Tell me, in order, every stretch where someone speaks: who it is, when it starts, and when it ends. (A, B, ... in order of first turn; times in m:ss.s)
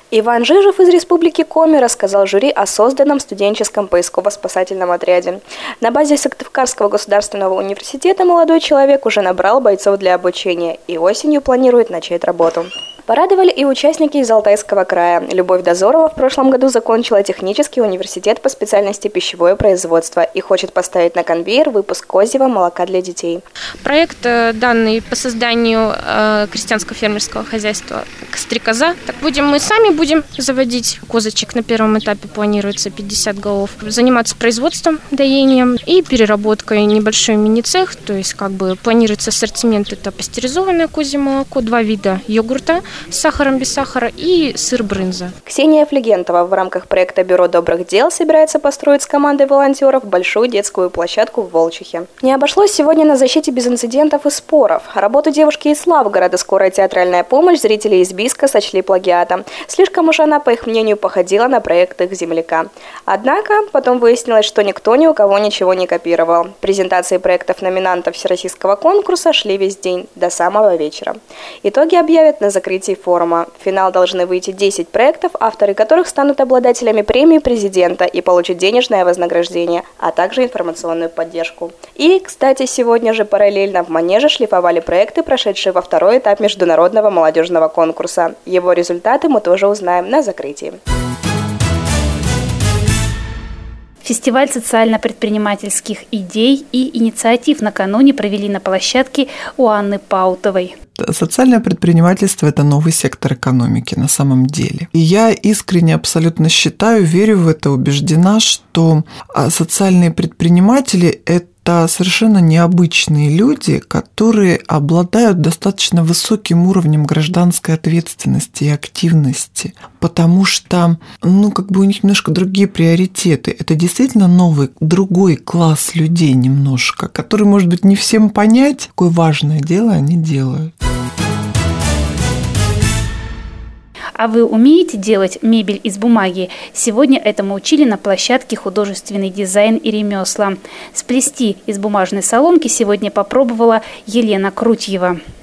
0:00.1-0:23.4 A
0:23.8-0:45.3 B
0:45.5-1:30.8 A
1:34.0-1:40.7 C
1:41.0-2:10.7 D
2:14.2-2:25.2 C